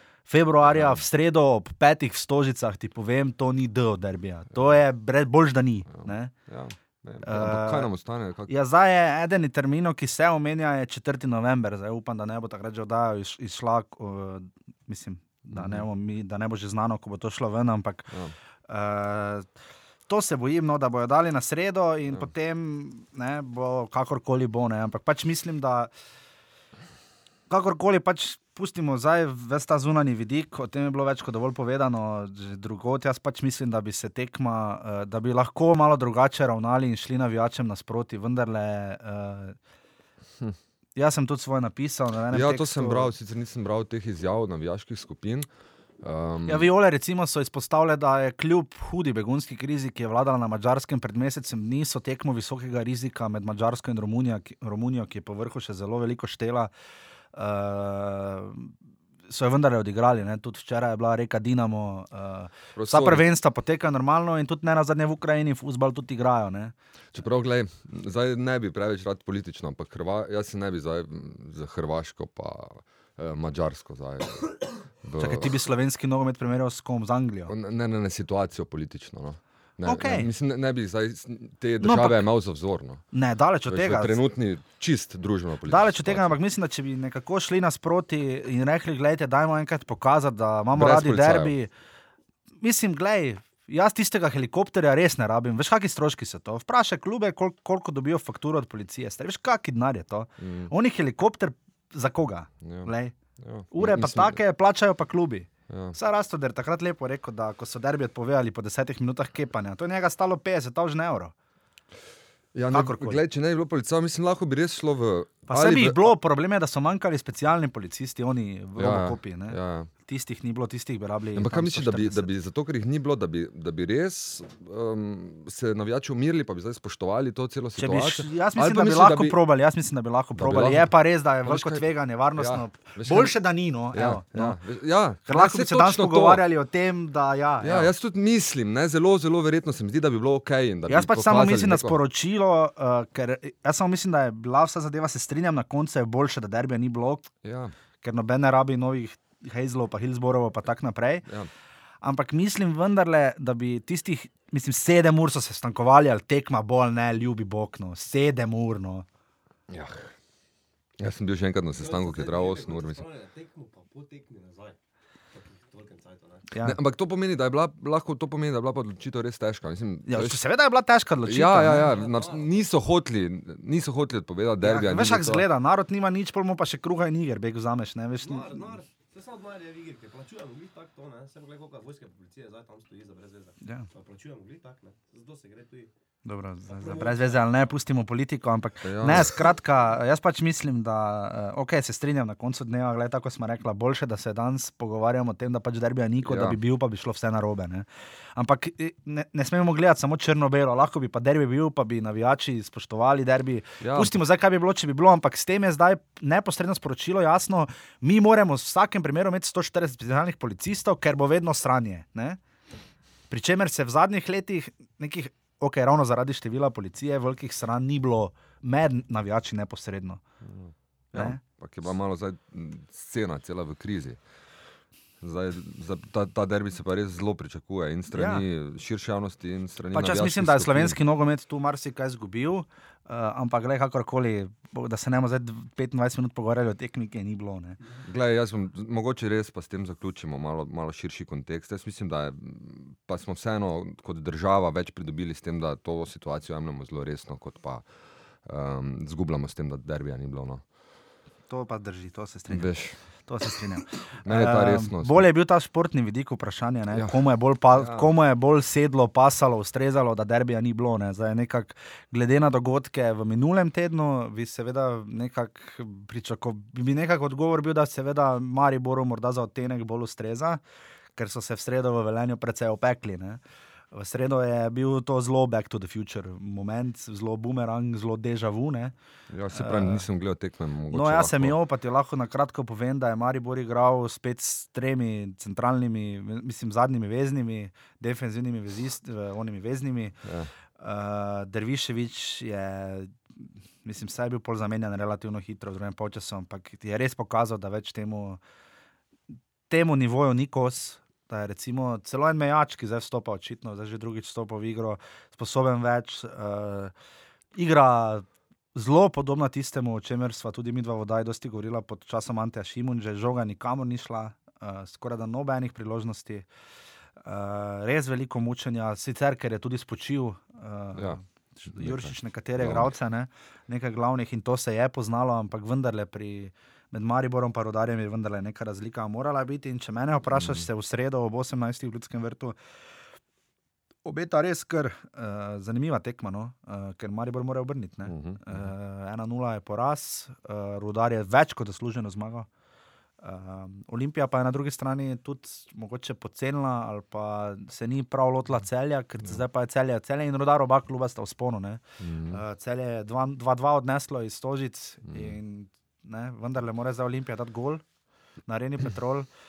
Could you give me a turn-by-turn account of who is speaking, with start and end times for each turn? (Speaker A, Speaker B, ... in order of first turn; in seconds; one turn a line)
Speaker A: 0.3-6.3
Speaker B: 0.6-1.0
Speaker B: 5.9-8.5
Speaker A: 7.2-7.9
Speaker A: 8.5-18.1
Speaker B: 15.5-15.8
Speaker A: 18.7-19.5
Speaker A: 20.1-25.9
Speaker A: 27.5-39.6
Speaker A: 41.0-43.1
Speaker B: 42.3-45.5
Speaker B: 46.0-46.7
Speaker A: 46.5-56.7
Speaker A: 57.3-58.7
Speaker A: 59.3-66.7
Speaker B: 62.8-63.3
Speaker B: 67.1-75.6
Speaker A: 75.2-77.5
Speaker B: 77.5-83.0
Speaker A: 79.8-80.3
Speaker A: 81.8-82.2
Speaker A: 83.1-84.2
Speaker B: 83.7-86.4
Speaker A: 85.7-91.7
Speaker B: 90.7-91.5
Speaker A: 92.6-103.1
Speaker B: 100.4-100.7
Speaker B: 102.6-104.4
Speaker A: 103.7-111.3
Speaker B: 105.7-106.0
Speaker B: 112.5-116.1
Speaker A: 112.7-113.2
Speaker A: 115.5-122.3
Speaker B: 118.8-119.9
Speaker B: 121.3-129.4
Speaker A: 127.8-134.6
Speaker B: 130.3-130.9
Speaker B: 131.4-131.8
Speaker B: 132.3-133.3
Speaker B: 133.9-136.4
Speaker A: 135.2-137.9
Speaker B: 137.6-142.0
Speaker A: 140.9-147.3
Speaker B: 147.4-147.7
Speaker A: 148.0-151.3
Speaker A: 152.0-159.1
Speaker B: 159.7-160.1
Speaker B: 161.0-163.1
Speaker C: 161.7-164.8
Speaker C: 165.3-166.5
Speaker A: 166.5-166.8
Speaker B: 166.6-170.4
Speaker A: 170.1-172.0
Speaker B: 171.2-175.4
Speaker C: 171.8-172.7
Speaker A: 174.6-178.8
Speaker C: 178.2-185.9
Speaker A: 183.6-183.9
Speaker A: 186.2-212.4
Speaker C: 186.7-187.7
Speaker B: 188.8-189.5
Speaker B: 196.2-196.6
Speaker B: 203.8-204.2
Speaker A: 213.3-220.2
Speaker B: 220.4-224.2
Speaker A: 221.1-221.4
Speaker B: 225.2-231.0
Speaker A: 228.1-228.4
Speaker A: 229.9-237.8
Speaker B: 238.0-247.8
Speaker B: 248.4-250.6
Speaker A: 251.5-270.6
Speaker B: 252.5-253.0
Speaker B: 254.2-255.3
Speaker B: 257.7-258.1
Speaker A: 271.1-273.4
Speaker A: 273.9-278.9
Speaker B: 279.3-281.5
Speaker A: 279.5-280.1
Speaker A: 280.9-290.2
Speaker B: 290.2-290.5
Speaker A: 290.8-298.4
Speaker A: 299.7-306.9
Speaker A: 307.6-316.5
Speaker A: 317.2-332.6
Speaker B: 320.9-322.9
Speaker B: 330.3-330.6
Speaker A: 334.0-342.5
Speaker B: 338.1-338.7
Speaker A: 343.2-357.8
Speaker B: 352.0-352.4
Speaker B: 355.1-355.3
Speaker A: 358.5-359.3